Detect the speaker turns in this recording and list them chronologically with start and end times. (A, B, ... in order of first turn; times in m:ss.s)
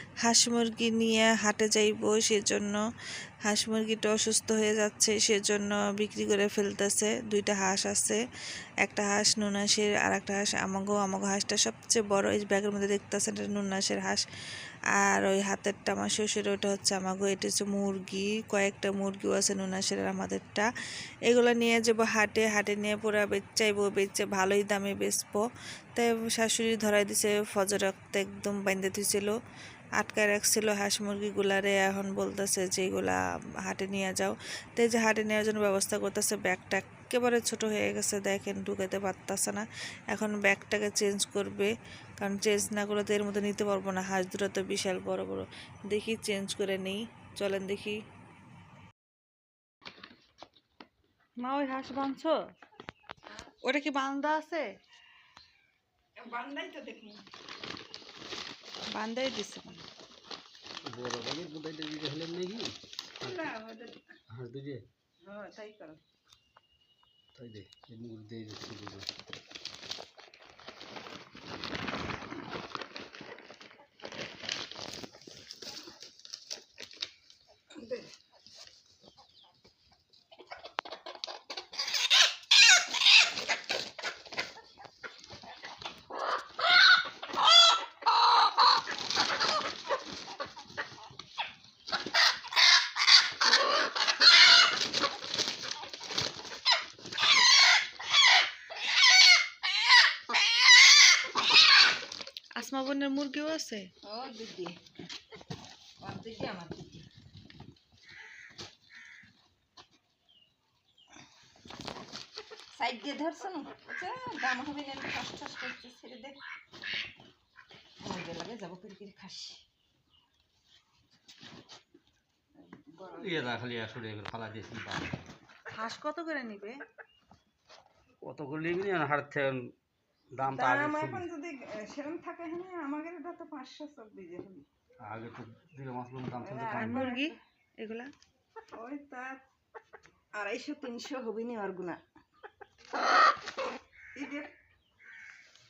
0:00.2-0:02.8 A
0:03.4-0:08.2 A
0:08.8-0:14.2 A
0:14.9-0:20.7 A
0:21.3-0:25.4 A
0:25.9-0:29.3 A
0:30.0-0:48.0 A
0:51.4-0:52.4 A
0:53.6-0:54.6 A
0:56.2-0:57.2 B
0:58.9-0:59.8 A
1:00.9-1:03.5 C
1:03.2-1:04.0 B
1:04.3-1:04.8 C
1:05.2-1:06.0 B
1:07.3-1:09.1 C
1:17.7-1:18.1 B
1:42.5-1:43.9 A
1:44.0-1:44.8 B
1:46.0-1:47.0 B
1:52.7-1:56.4 B
1:58.0-1:59.6 B
2:02.6-2:03.5 B
2:03.1-2:05.1 C
2:05.7-2:06.8 A
2:08.2-2:09.7 C
2:10.3-2:11.2 C
2:10.5-2:14.7 B
2:15.0-2:17.1 C
2:16.4-2:17.4 B
2:16.7-2:18.1 A
2:18.7-2:19.4 B
2:20.3-2:22.0 B
2:24.2-2:24.5 B